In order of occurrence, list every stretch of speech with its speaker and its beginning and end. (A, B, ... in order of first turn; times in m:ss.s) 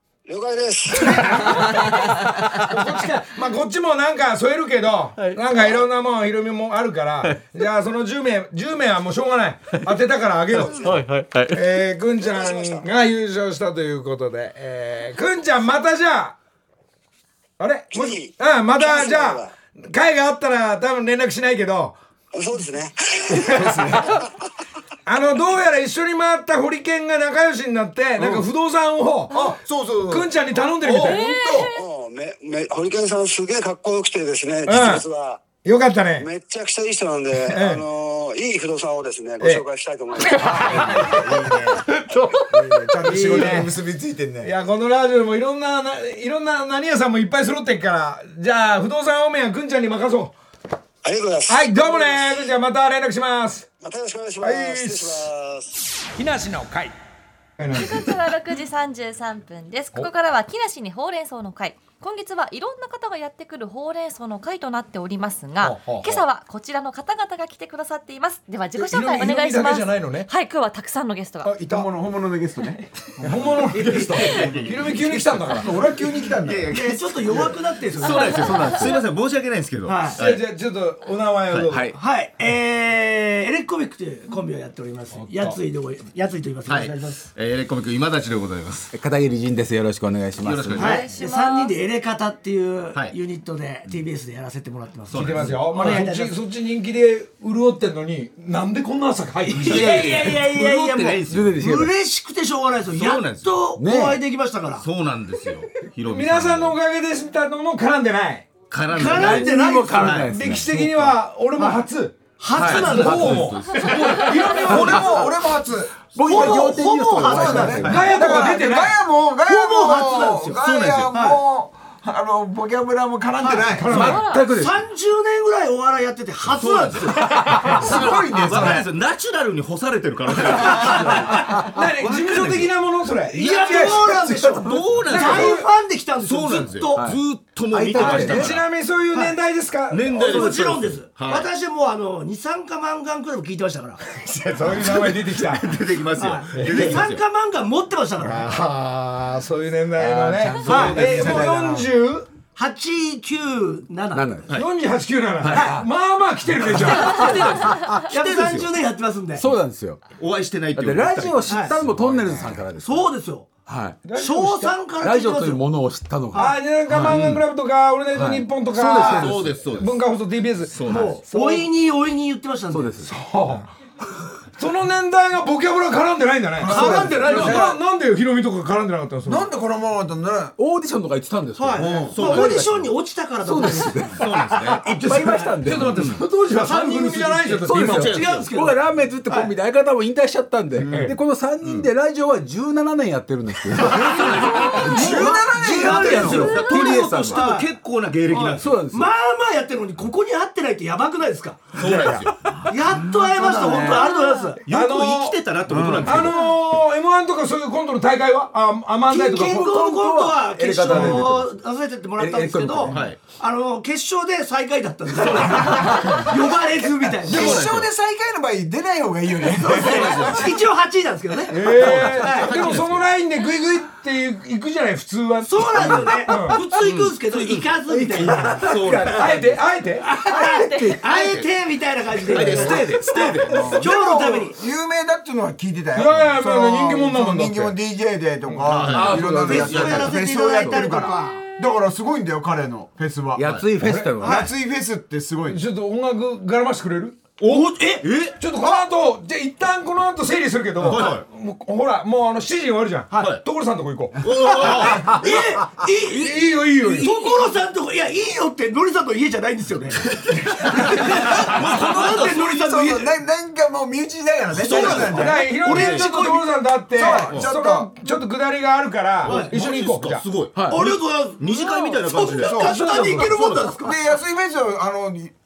0:00.2-0:01.8 A
0:01.0-0:11.0 B
0:10.7-0:11.7 C
0:11.5-0:16.3 B
0:12.2-0:12.8 A
0:17.6-0:22.0 B
0:17.9-0:19.5 A
0:22.3-0:23.5 A
0:23.3-0:24.0 B
0:23.5-0:24.0 D
0:25.0-0:31.3 B
0:29.6-0:30.3 D
0:30.8-0:31.6 D
0:31.0-0:31.7 E
0:31.7-0:35.5 A
0:34.7-0:35.0 B
0:35.6-0:36.3 B
0:36.2-0:40.9 A
0:37.5-0:37.8 B
0:40.4-0:41.0 B
0:40.6-0:41.9 D
0:41.9-0:42.6 C
0:42.5-0:44.5 D
0:43.0-0:43.7 B
0:44.4-0:50.3 B
0:51.0-0:52.3 A
0:51.5-0:53.7 B
0:53.8-0:55.7 A
0:54.4-0:55.3 B
0:56.2-0:56.9 B
0:57.6-0:58.1 B
0:57.7-1:11.5 E
1:05.6-1:06.2 B
1:08.7-1:10.3 B
1:11.4-1:11.9 B
1:11.6-1:17.6 D
1:13.2-1:15.7 B
1:14.0-1:15.2 F
1:16.4-1:20.4 F
1:16.7-1:18.7 G
1:18.0-1:18.8 E
1:18.3-1:19.0 C
1:19.9-1:20.2 G
1:20.2-1:21.9 B
1:21.5-1:21.8 F
1:21.7-1:22.0 C
1:21.9-1:27.3 G
1:25.1-1:25.6 B
1:26.6-1:28.9 F
1:28.9-1:31.0 C
1:30.4-1:31.1 F
1:30.8-1:36.4 G
1:30.8-1:31.7 E
1:35.1-1:36.0 F
1:35.1-1:40.2 B
1:39.6-1:44.8 G
1:39.6-1:41.6 F
1:41.3-1:41.9 C
1:42.9-1:43.6 F
1:43.8-1:44.2 C
1:44.8-1:46.8 F
1:46.1-1:48.5 B
1:48.7-1:50.3 F
1:48.9-1:50.3 G
1:49.0-1:51.2 C
1:50.3-1:55.3 B
1:51.6-1:51.8 G
1:52.4-1:53.5 G
1:52.5-1:55.2 C
1:52.6-1:54.1 F
1:54.5-1:56.7 D
1:56.1-1:58.2 C
1:56.2-1:58.6 G
1:57.2-2:04.0 D
1:57.6-1:58.1 F
1:57.9-1:59.0 B
1:59.4-2:01.4 G
2:00.6-2:01.1 F
2:03.4-2:03.8 G
2:03.7-2:04.2 B
2:03.9-2:04.8 C
2:03.9-2:04.5 E
2:04.4-2:07.8 G
2:06.4-2:11.4 F
2:07.8-2:08.9 D
2:10.4-2:12.6 G
2:11.6-2:14.3 B
2:12.0-2:12.6 F
2:13.3-2:17.1 G
2:14.3-2:15.1 C
2:14.6-2:18.6 F
2:15.1-2:15.7 B
2:16.9-2:18.6 C
2:18.0-2:20.2 B
2:19.9-2:21.5 F
2:20.1-2:24.0 G
2:24.2-2:25.7 B
2:24.7-2:27.2 F
2:26.2-2:28.5 G
2:26.5-2:27.0 B
2:28.2-2:32.3 B
2:30.0-2:31.5 C
2:30.7-2:31.9 D
2:30.7-2:31.1 G
2:32.5-2:34.5 G
2:34.1-2:34.5 C
2:34.5-2:37.2 B
2:35.4-2:35.7 F
2:35.5-2:35.8 G
2:36.7-2:39.5 G
2:36.9-2:38.5 C
2:37.3-2:38.0 E
2:38.1-2:38.6 F
2:39.3-2:40.0 C
2:40.2-2:42.6 F
2:40.7-2:43.1 C
2:41.4-2:41.8 G
2:42.8-2:45.6 G
2:43.6-2:44.1 C
2:44.0-2:44.7 B
2:45.0-2:47.3 C
2:46.3-2:46.6 G
2:46.3-2:51.7 B
2:47.0-2:47.4 F
2:48.1-2:49.2 C
2:48.8-2:49.3 G
2:49.0-2:50.0 F
2:50.7-2:51.2 F
2:50.8-2:53.0 G
2:52.7-2:53.1 C
2:53.0-2:53.7 B
2:54.6-2:59.5 B
2:56.6-2:57.7 D
2:56.7-2:57.8 G
2:56.7-2:57.8 C
2:59.2-3:00.5 D
3:00.6-3:02.9 C
3:01.6-3:04.3 G
3:01.8-3:02.2 D
3:01.8-3:02.8 F
3:03.4-3:06.4 C
3:04.2-3:04.9 F
3:04.9-3:08.1 B
3:05.9-3:06.2 F
3:06.5-3:09.5 G
3:07.6-3:17.4 C
3:07.8-3:08.5 F
3:10.8-3:11.2 B
3:11.6-3:11.9 F
3:13.9-3:17.7 G
3:13.9-3:15.3 F
3:14.8-3:16.5 D
3:16.0-3:18.8 F
3:18.3-3:21.7 G
3:18.5-3:19.1 C
3:21.7-3:22.4 F
3:21.8-3:22.2 D
3:22.5-3:24.1 C
3:22.7-3:24.6 G
3:23.4-3:23.7 D
3:23.9-3:24.5 E
3:24.6-3:26.5 F
3:24.7-3:25.4 B
3:25.7-3:26.2 D
3:26.0-3:29.7 B
3:29.1-3:37.7 G
3:29.3-3:31.5 C
3:30.9-3:31.2 B
3:32.2-3:33.0 C
3:32.8-3:33.2 F
3:37.2-3:40.5 D
3:37.2-3:37.9 F
3:39.6-3:42.8 G
3:39.7-3:40.6 F
3:41.5-3:46.6 B
3:41.6-3:42.1 C
3:41.8-3:43.1 F
3:45.4-3:48.7 G
3:46.7-3:49.4 F
3:47.9-3:49.6 C
3:49.1-3:50.1 B
3:50.0-3:54.6 G
3:50.2-3:51.0 C
3:50.3-3:51.0 E
3:51.0-3:51.5 F
3:52.2-3:53.7 F
3:52.3-3:52.7 C
3:53.5-4:03.5 D
3:55.9-3:57.8 B
3:58.6-4:00.1 F
3:58.9-4:00.9 C
3:59.4-4:01.4 G
4:03.4-4:04.4 C
4:03.4-4:03.7 F
4:03.8-4:04.1 B
4:04.2-4:04.5 G
4:04.2-4:05.6 D
4:05.5-4:07.3 B
4:07.4-4:08.3 F
4:07.4-4:08.1 G
4:08.4-4:14.2 B
4:10.8-4:11.2 F
4:13.1-4:13.4 F
4:14.2-4:15.3 F
4:14.4-4:23.1 G
4:16.1-4:17.1 B
4:20.2-4:22.5 F
4:21.9-4:25.6 D
4:24.5-4:26.2 F
4:24.7-4:27.0 G
4:24.7-4:30.2 B
4:26.9-4:27.9 D
4:29.2-4:33.7 F
4:29.2-4:29.5 G
4:30.7-4:34.0 G
4:32.4-4:33.0 D
4:32.7-4:33.3 B
4:33.7-4:35.3 D